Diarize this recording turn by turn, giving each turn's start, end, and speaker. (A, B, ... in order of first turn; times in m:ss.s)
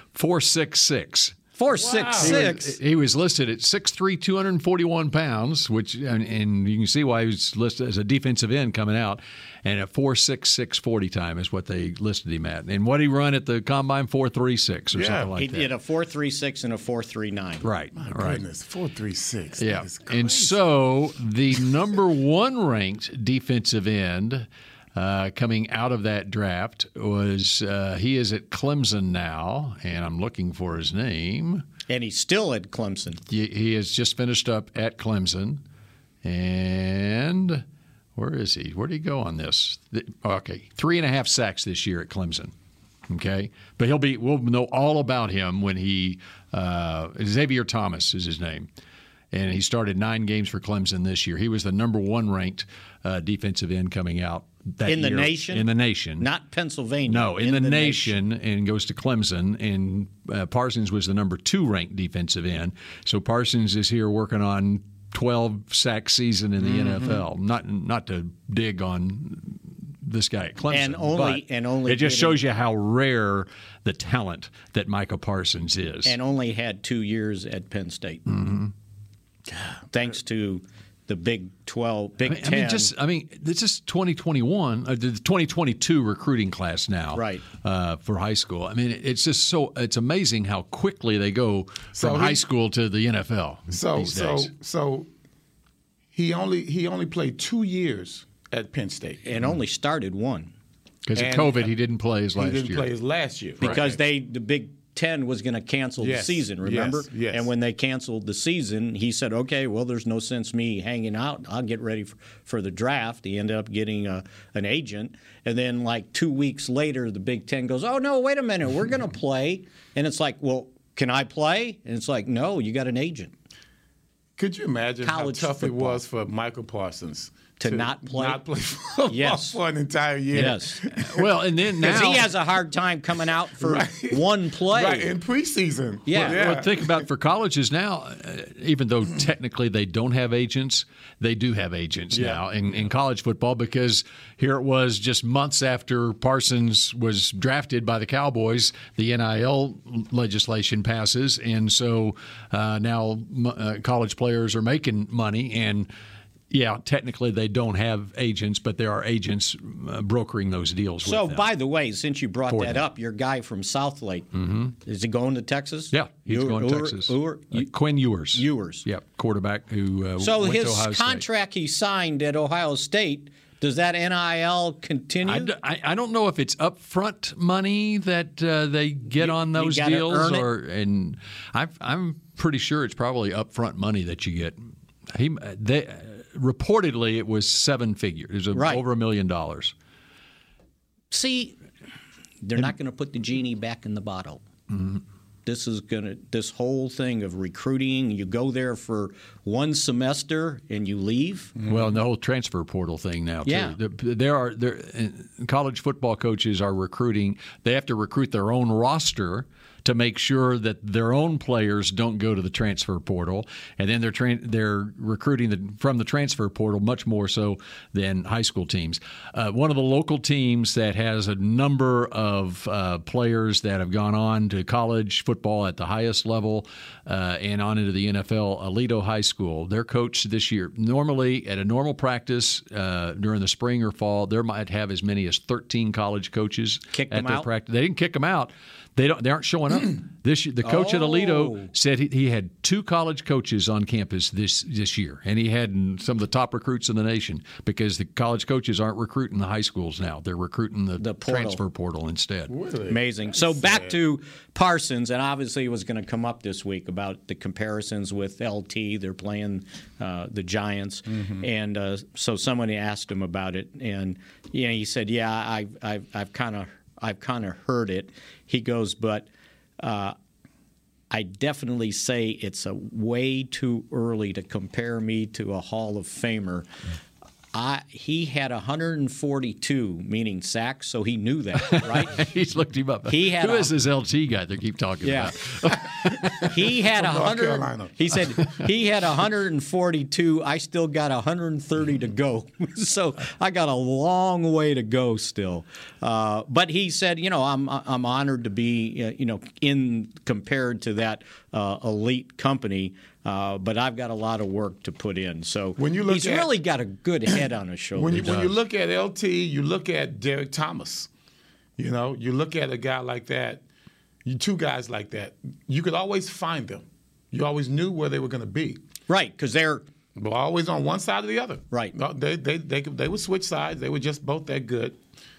0:00.1-0:01.4 A
0:01.6-0:02.8 B
0:01.7-0:02.4 C
0:02.2-0:15.7 A
0:14.9-0:15.4 C
0:15.4-0:17.7 B
0:17.6-0:18.4 A
0:18.0-0:20.6 C
0:19.6-0:31.7 A
0:31.9-0:33.2 B
0:33.3-0:35.6 A
0:36.2-0:37.6 A
0:38.2-0:42.5 A
0:43.1-0:48.7 A
0:49.3-0:56.3 A
0:54.8-0:58.2 B
0:57.1-1:16.2 A
1:06.6-1:07.2 C
1:10.7-1:12.4 B
1:16.0-1:18.3 B
1:18.3-1:18.7 A
1:19.9-1:22.9 B
1:22.3-1:34.5 A
1:27.1-1:27.4 B
1:31.9-1:32.4 C
1:33.7-1:35.1 C
1:36.1-1:39.3 C
1:39.2-1:40.5 B
1:41.1-1:42.9 A
1:41.2-1:41.7 C
1:42.4-1:44.0 C
1:43.6-2:03.3 B
1:46.0-1:47.5 C
2:04.4-2:11.3 C
2:05.0-2:06.0 B
2:07.6-2:08.4 B
2:09.1-2:09.6 B
2:10.3-2:10.8 B
2:10.9-2:12.3 A
2:11.8-2:15.1 B
2:13.6-2:17.1 C
2:16.1-2:16.4 B
2:16.1-2:35.9 A
2:22.1-2:22.4 C
2:36.5-2:41.5 A
2:41.0-2:47.7 B
2:42.5-2:42.9 A
2:44.3-2:44.7 A
2:45.9-2:51.3 A
2:48.3-2:48.9 B
2:50.2-2:55.5 B
2:55.2-3:09.7 A
2:59.2-3:00.5 B
3:08.5-3:08.8 B
3:11.1-3:11.6 B
3:12.4-3:14.4 B
3:14.7-3:15.0 A
3:15.5-3:21.6 B
3:21.7-4:12.5 A
3:23.5-3:23.8 B
3:56.9-3:57.5 B
4:00.6-4:01.7 B
4:11.0-4:11.6 B
4:12.5-4:14.0 C
4:12.9-4:29.3 B
4:21.1-4:21.4 C
4:29.8-4:30.2 B
4:31.1-4:36.7 B
4:37.5-4:42.2 B
4:41.6-4:46.5 A
4:43.1-4:43.7 B
4:45.0-4:45.3 B
4:46.4-4:48.1 C
4:46.5-5:08.4 B
5:05.8-5:06.5 C
5:08.0-5:11.1 C
5:08.2-5:08.5 A
5:11.8-5:13.6 C
5:14.2-5:18.8 C
5:19.1-5:19.8 B
5:20.2-5:25.0 C